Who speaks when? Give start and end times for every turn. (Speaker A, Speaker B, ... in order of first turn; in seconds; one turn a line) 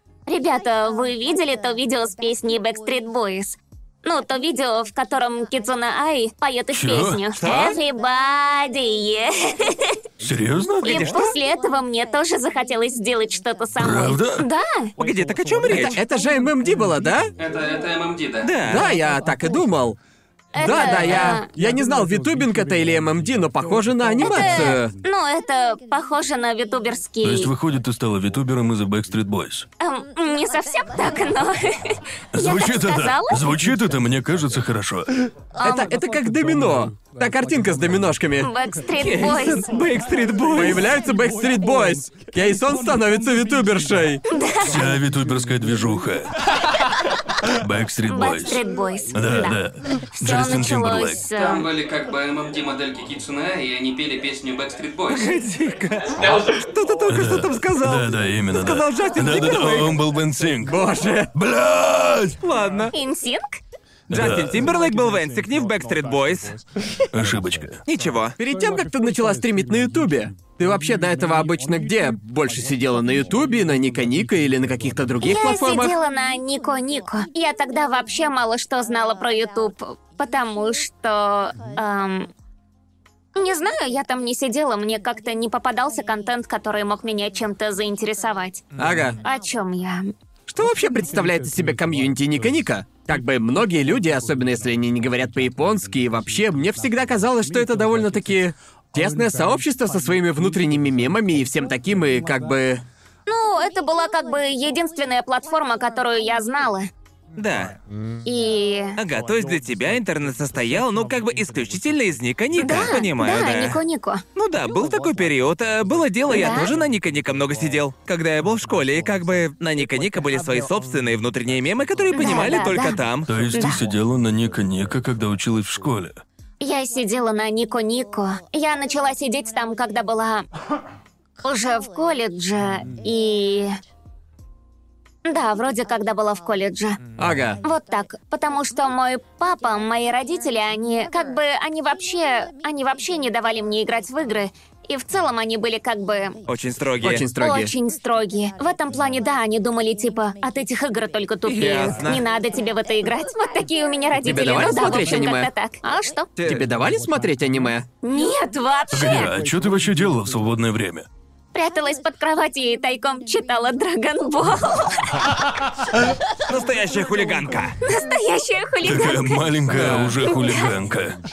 Speaker A: 0.3-10.0
Speaker B: 6.7-7.2
Speaker C: 7.4-7.7
Speaker B: 10.2-11.1
Speaker A: 10.8-14.9
Speaker D: 10.8-11.3
Speaker B: 13.8-14.5
Speaker D: 15.0-16.0
Speaker C: 15.7-17.3
Speaker E: 17.4-18.6
Speaker D: 18.4-18.9
Speaker C: 18.6-20.0
Speaker A: 20.5-21.5
Speaker C: 20.6-24.9
Speaker A: 24.2-27.5
Speaker B: 27.2-29.7
Speaker A: 29.8-33.4
Speaker B: 32.3-35.1
Speaker A: 35.6-35.9
Speaker C: 35.6-38.5
Speaker A: 38.4-39.7
Speaker D: 39.0-40.9
Speaker C: 40.5-44.2
Speaker A: 44.3-44.8
Speaker B: 44.6-46.3
Speaker B: 47.4-51.2
Speaker A: 48.1-49.6
Speaker A: 50.1-51.7
Speaker E: 51.3-55.3
Speaker D: 55.1-60.0
Speaker B: 57.1-60.8
Speaker C: 60.6-61.3
Speaker B: 61.3-62.4
Speaker D: 62.4-62.9
Speaker A: 62.9-63.6
Speaker B: 64.1-64.7
Speaker D: 64.1-66.6
Speaker B: 67.1-67.8
Speaker D: 67.9-68.3
Speaker C: 68.4-76.0
Speaker A: 75.2-82.3
Speaker A: 83.3-88.6
Speaker C: 88.8-89.2
Speaker A: 89.2-90.1
Speaker C: 90.5-102.8
Speaker A: 103.3-106.9
Speaker D: 107.3-107.7
Speaker A: 108.2-109.0
Speaker D: 109.0-113.8
Speaker A: 112.6-114.2
Speaker D: 114.3-123.3
Speaker A: 116.3-116.7
Speaker A: 122.1-123.0
Speaker B: 123.2-126.2
Speaker A: 123.5-123.8
Speaker A: 126.6-130.4
Speaker A: 131.4-133.7
Speaker A: 135.2-137.0
Speaker C: 137.2-137.6
Speaker A: 137.6-146.4
Speaker D: 146.5-147.2
Speaker C: 147.0-147.7
Speaker A: 147.4-156.3
Speaker D: 151.4-152.2
Speaker C: 154.2-155.5
Speaker D: 156.4-156.7
Speaker C: 156.4-157.8
Speaker A: 158.0-159.3
Speaker B: 158.9-161.1
Speaker A: 161.5-165.2
Speaker D: 166.5-167.8
Speaker A: 167.8-169.5
Speaker B: 168.8-171.2
Speaker C: 169.7-170.1
Speaker A: 170.2-170.7